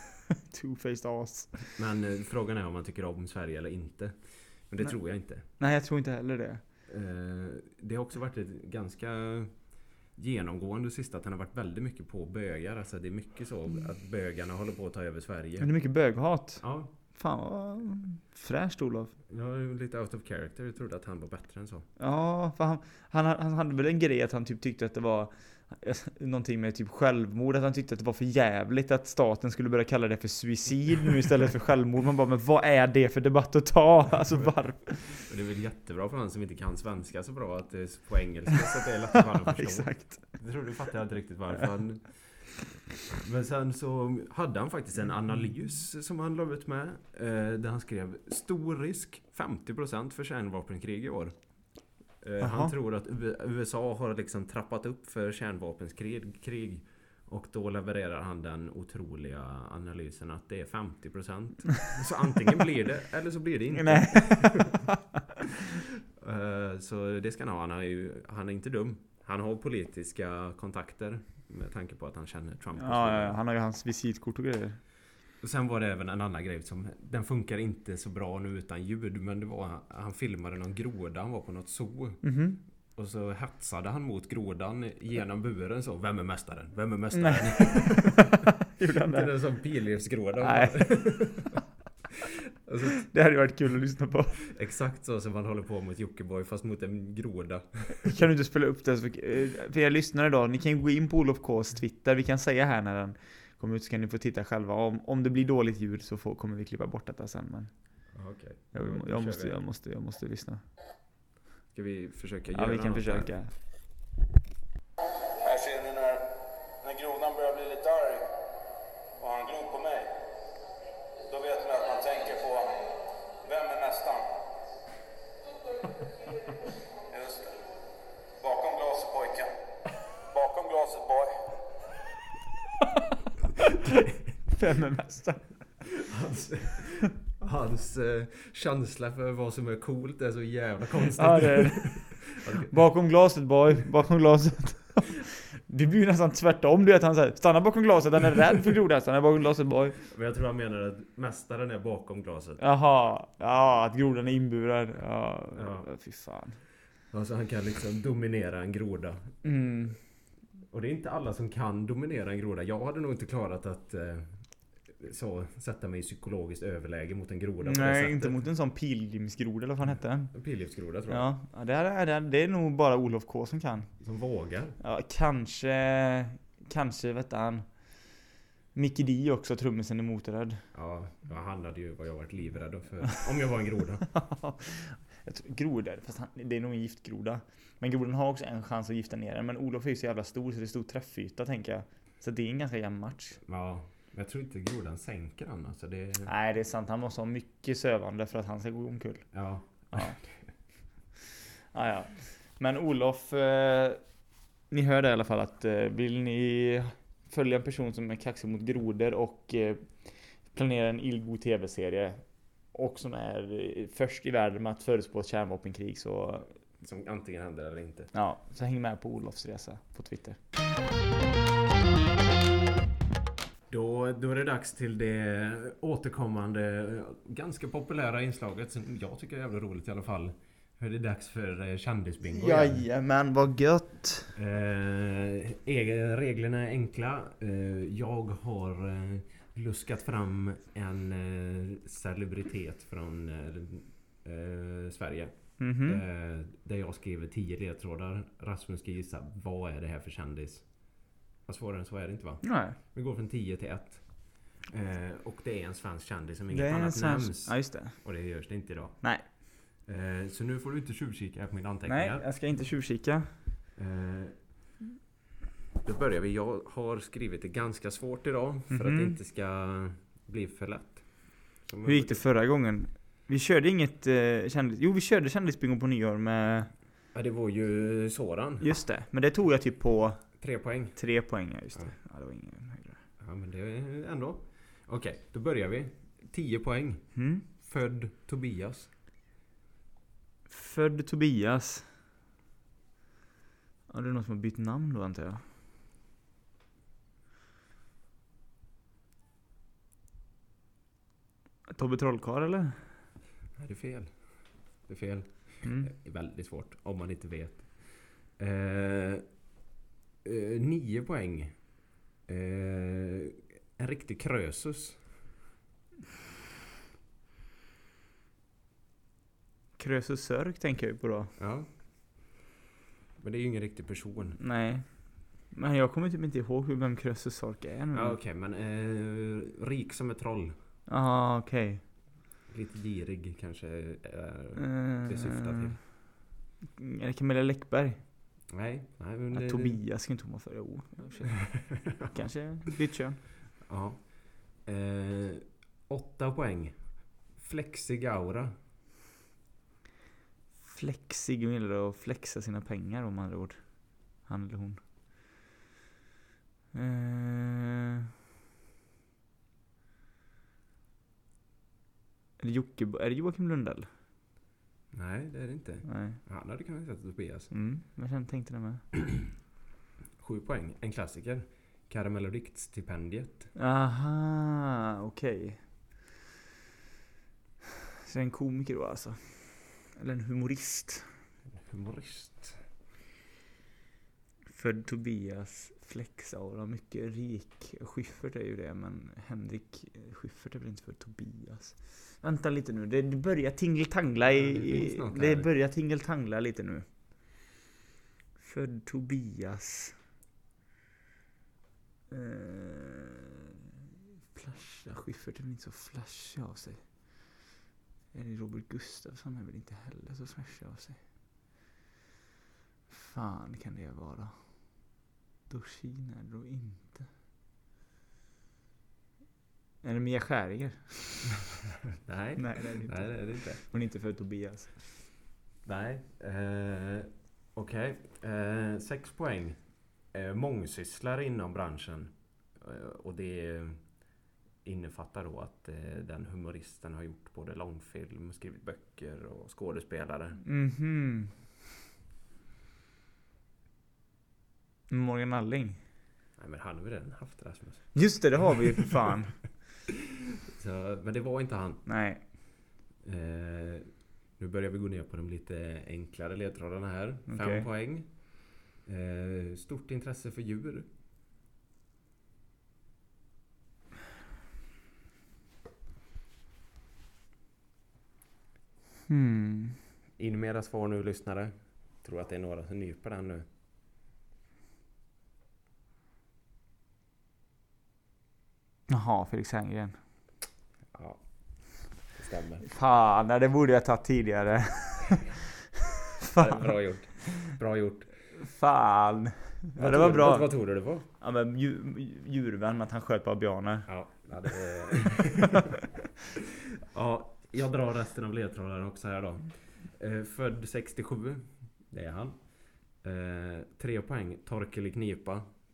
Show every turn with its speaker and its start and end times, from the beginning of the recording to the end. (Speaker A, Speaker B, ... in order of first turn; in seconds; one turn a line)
Speaker A: 0.4-1.7
Speaker B: 1.8-5.5
Speaker A: 5.4-6.6
Speaker B: 6.9-15.7
Speaker A: 15.6-19.1
Speaker B: 16.6-16.9
Speaker B: 19.3-21.9
Speaker A: 22.0-35.2
Speaker B: 35.1-51.3
Speaker A: 39.5-40.4
Speaker B: 52.2-64.8
Speaker A: 52.4-52.7
Speaker A: 63.8-64.8
Speaker B: 66.2-73.4
Speaker A: 72.8-74.8
Speaker B: 75.4-82.2
Speaker A: 82.2-82.6
Speaker B: 82.9-88.5
Speaker A: 87.1-89.3
Speaker B: 89.0-91.6
Speaker A: 90.4-91.6
Speaker B: 92.7-93.0
Speaker A: 93.0-94.3
Speaker B: 94.5-98.2
Speaker A: 98.0-107.7
Speaker B: 108.1-109.6
Speaker A: 108.7-110.6
Speaker B: 111.7-113.3
Speaker A: 112.5-113.5
Speaker C: 115.4-116.2
Speaker C: 116.8-118.2
Speaker C: 119.2-120.1
Speaker C: 121.3-124.4
Speaker C: 127.1-127.6
Speaker C: 128.4-129.5
Speaker C: 130.3-131.3
Speaker B: 133.8-134.2
Speaker A: 134.5-135.5
Speaker B: 135.9-142.7
Speaker A: 141.2-150.0
Speaker B: 150.0-152.6
Speaker A: 152.6-156.6
Speaker B: 155.5-155.9
Speaker B: 157.1-159.3
Speaker A: 159.4-160.0
Speaker B: 160.7-164.4
Speaker B: 164.9-168.3
Speaker A: 167.6-170.3
Speaker B: 170.3-171.2
Speaker A: 171.1-173.9
Speaker B: 174.0-174.8
Speaker A: 174.8-178.1
Speaker A: 178.7-180.6
Speaker B: 180.7-184.1
Speaker A: 184.1-193.4
Speaker B: 193.4-196.3
Speaker A: 196.2-199.3
Speaker B: 199.3-200.5
Speaker A: 199.9-200.2
Speaker A: 201.7-204.0
Speaker A: 204.7-216.5
Speaker B: 216.8-218.1
Speaker A: 218.1-220.4
Speaker B: 223.7-232.8
Speaker A: 232.2-234.3
Speaker B: 234.3-262.2
Speaker A: 245.6-246.0
Speaker A: 252.4-252.8
Speaker A: 256.5-258.0
Speaker A: 261.9-263.3
Speaker B: 263.8-264.5
Speaker B: 265.8-272.2
Speaker A: 268.7-269.2
Speaker A: 271.8-276.7
Speaker B: 277.1-278.7
Speaker A: 278.6-280.3
Speaker B: 280.4-281.0
Speaker A: 280.9-283.0
Speaker B: 283.2-288.9
Speaker A: 287.1-287.4
Speaker A: 290.5-291.9
Speaker A: 293.9-295.4
Speaker A: 301.7-302.8
Speaker B: 303.6-309.2
Speaker A: 305.6-305.9
Speaker B: 310.2-315.1
Speaker A: 319.8-321.3
Speaker B: 321.4-321.7
Speaker B: 323.2-324.4
Speaker A: 324.4-328.2
Speaker B: 327.9-330.5
Speaker A: 330.9-331.8
Speaker B: 332.5-335.8
Speaker A: 334.6-335.7
Speaker A: 336.7-338.0
Speaker B: 338.5-339.8
Speaker A: 339.3-343.2
Speaker B: 341.5-342.2
Speaker B: 343.6-348.5
Speaker A: 350.6-353.6
Speaker A: 354.2-354.8
Speaker A: 356.7-358.1
Speaker A: 362.4-363.9
Speaker B: 364.9-367.5
Speaker A: 365.9-366.2
Speaker A: 367.5-368.8
Speaker B: 370.2-373.5
Speaker A: 373.6-375.6
Speaker A: 378.0-381.1
Speaker B: 381.6-382.6
Speaker A: 384.5-396.9
Speaker B: 394.3-395.5
Speaker A: 398.4-399.9
Speaker A: 402.1-403.3
Speaker A: 404.3-406.8
Speaker A: 408.1-411.0
Speaker A: 412.9-414.4
Speaker A: 415.5-417.1
Speaker A: 419.8-421.3
Speaker B: 422.0-423.6
Speaker A: 422.4-424.8
Speaker B: 425.6-434.0
Speaker B: 434.6-440.4
Speaker A: 440.4-441.3
Speaker A: 444.9-445.8
Speaker B: 446.4-448.6
Speaker A: 447.9-449.5
Speaker B: 450.6-451.9
Speaker A: 451.9-452.2
Speaker B: 453.0-460.9
Speaker A: 457.3-457.6
Speaker A: 469.1-469.8
Speaker B: 470.2-473.4
Speaker A: 478.9-480.0
Speaker B: 480.9-482.7
Speaker A: 482.7-485.3
Speaker A: 486.2-486.7
Speaker B: 486.4-488.1
Speaker A: 488.4-493.9
Speaker B: 489.8-491.1
Speaker B: 493.9-495.7
Speaker B: 496.9-505.5